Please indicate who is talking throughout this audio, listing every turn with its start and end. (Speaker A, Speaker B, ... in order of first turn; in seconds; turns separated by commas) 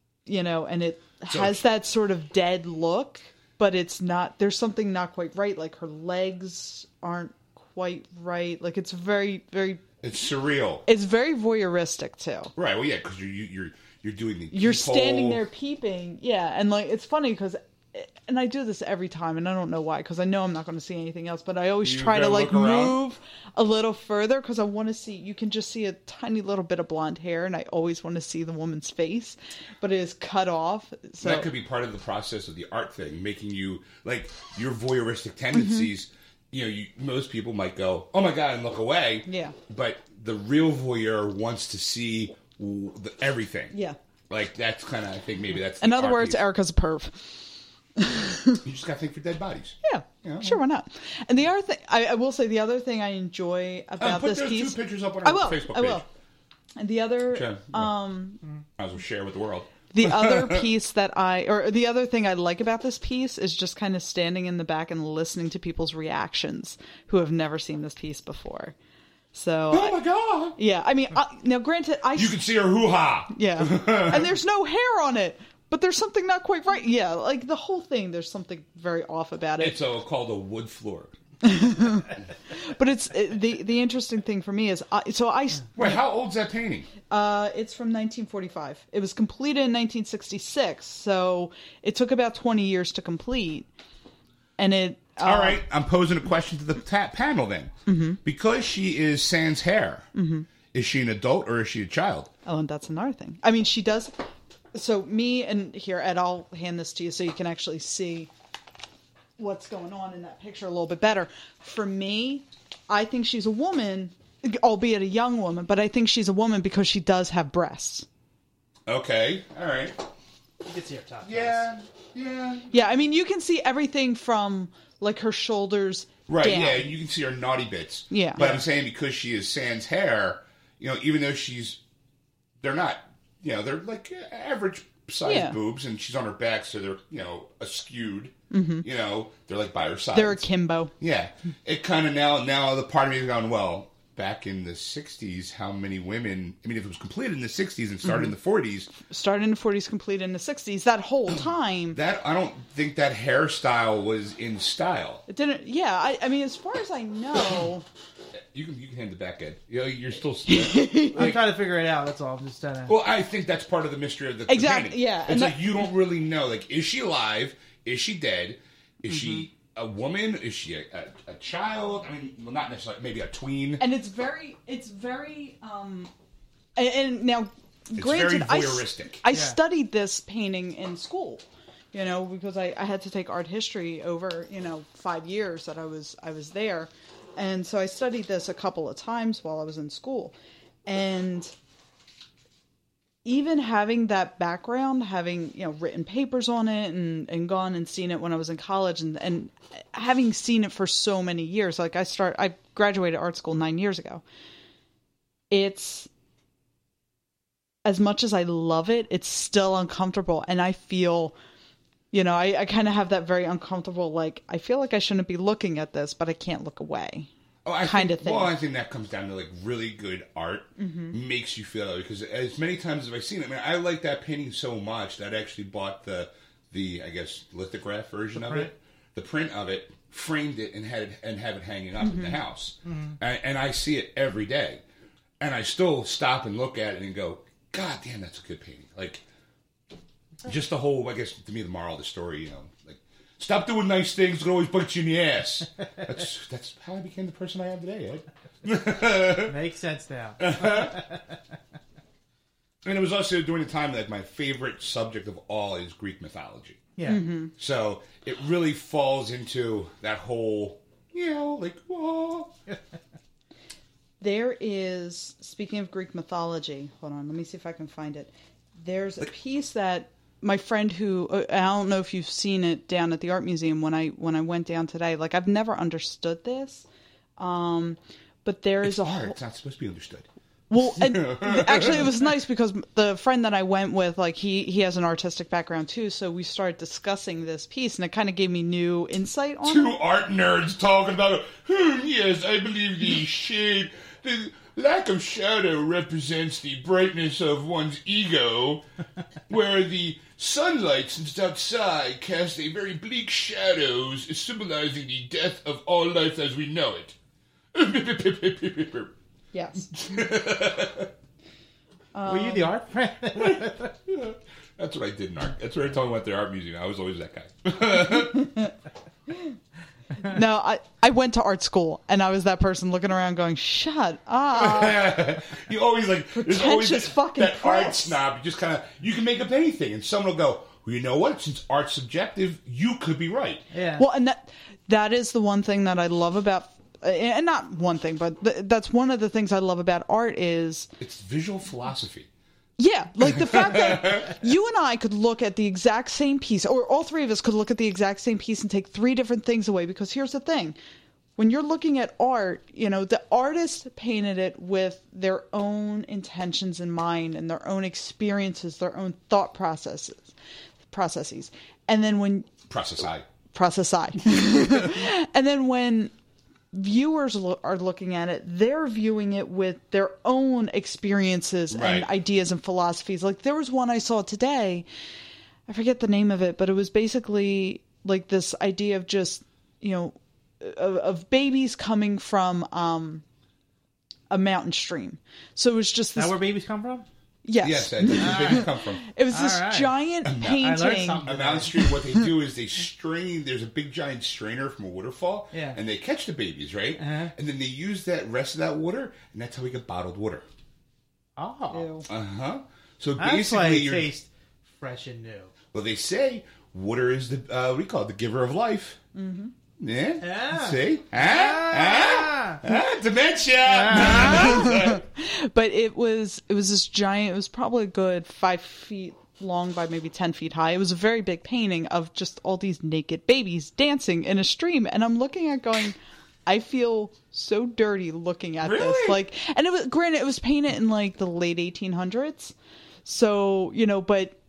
Speaker A: 0.3-9.8, Speaker B: 1.3-1.6, Speaker B: 10.0-10.8, Speaker A: 10.9-12.5, Speaker B: 12.6-15.4, Speaker A: 14.5-31.5, Speaker B: 21.8-23.0, Speaker B: 31.2-43.7, Speaker A: 35.5-35.9, Speaker A: 39.3-39.6, Speaker B: 44.3-46.4, Speaker A: 45.8-47.3, Speaker A: 48.0-48.6, Speaker B: 48.6-50.6, Speaker A: 49.9-56.0, Speaker B: 54.0-56.0, Speaker A: 56.8-58.4, Speaker B: 57.3-57.9, Speaker B: 58.8-60.7, Speaker A: 59.9-68.8, Speaker A: 69.3-70.0, Speaker B: 69.7-70.6, Speaker A: 70.6-72.4, Speaker B: 72.2-74.4, Speaker A: 73.3-79.8, Speaker B: 79.6-81.1, Speaker A: 81.4-86.0, Speaker B: 85.8-86.9, Speaker A: 87.1-93.7, Speaker A: 94.6-95.6, Speaker B: 95.2-100.1, Speaker A: 97.9-98.2, Speaker A: 100.2-100.5, Speaker B: 100.7-102.3, Speaker A: 102.5-104.2, Speaker A: 104.7-108.3, Speaker A: 109.4-118.1, Speaker B: 118.9-120.0, Speaker C: 120.7-121.6, Speaker B: 121.2-122.7, Speaker A: 122.7-126.9, Speaker B: 126.3-131.8, Speaker A: 128.1-128.4, Speaker C: 128.4-128.7, Speaker B: 132.6-140.5, Speaker A: 135.2-135.6, Speaker A: 138.5-138.9, Speaker A: 140.1-140.9, Speaker B: 141.0-148.9, Speaker A: 148.9-152.0, Speaker B: 151.9-155.2, Speaker A: 155.3-157.8, Speaker B: 158.5-161.4, Speaker A: 160.5-161.2, Speaker C: 161.2-162.9, Speaker B: 162.9-173.8, Speaker A: 164.5-165.7, Speaker A: 173.8-176.1, Speaker A: 176.8-190.3, Speaker B: 178.0-179.2, Speaker C: 179.3-179.6, Speaker A: 190.9-191.5, Speaker A: 193.2-204.2, Speaker A: 205.5-206.1, Speaker A: 207.8-211.3, Speaker A: 212.1-217.3, Speaker B: 217.7-234.8, Speaker A: 217.8-218.5, Speaker A: 220.8-221.2, Speaker C: 228.3-228.7, Speaker A: 232.0-232.4, Speaker C: 232.8-233.2, Speaker B: 235.4-239.2, Speaker B: 240.4-249.6, Speaker C: 249.4-251.2, Speaker B: 250.4-251.0, Speaker B: 252.8-256.9, Speaker C: 257.0-257.2, Speaker A: 257.0-257.5, Speaker B: 257.6-262.6, Speaker A: 264.2-276.9, Speaker A: 277.4-279.4, Speaker B: 278.8-280.3, Speaker A: 280.7-289.9, Speaker B: 280.8-282.1, Speaker B: 289.6-298.8, Speaker B: 299.5-307.2, Speaker B: 307.7-309.1, Speaker A: 309.5-309.9, Speaker B: 309.9-311.1, Speaker A: 312.1-312.7, Speaker C: 312.2-313.9, Speaker B: 313.4-318.5, Speaker A: 318.3-318.7, Speaker A: 320.2-325.2, Speaker B: 324.5-333.6, Speaker A: 326.4-328.2, Speaker C: 333.7-334.0, Speaker A: 334.0-340.9, Speaker B: 341.0-342.3, Speaker A: 342.8-350.8, Speaker B: 343.2-344.4, Speaker A: 351.4-360.3, Speaker A: 360.9-362.5, Speaker B: 362.7-363.3, Speaker A: 363.5-366.1, Speaker A: 366.7-374.9, Speaker B: 371.7-372.1, Speaker A: 375.7-383.2, Speaker A: 384.3-386.4, Speaker C: 386.1-387.1, Speaker A: 387.4-391.3, Speaker B: 387.6-389.0, Speaker C: 388.2-388.7, Speaker C: 389.3-389.9, Speaker B: 390.2-400.5, Speaker C: 390.5-391.8, Speaker A: 391.9-392.2, Speaker C: 395.5-395.8, Speaker C: 397.0-397.3, Speaker C: 401.4-401.9, Speaker A: 401.7-402.1, Speaker B: 402.1-404.1, Speaker C: 403.2-405.5, Speaker B: 405.7-409.0, Speaker A: 409.1-409.5, Speaker B: 409.8-415.0, Speaker C: 410.2-412.6, Speaker C: 413.7-414.6, Speaker A: 414.1-434.4, Speaker B: 428.6-429.2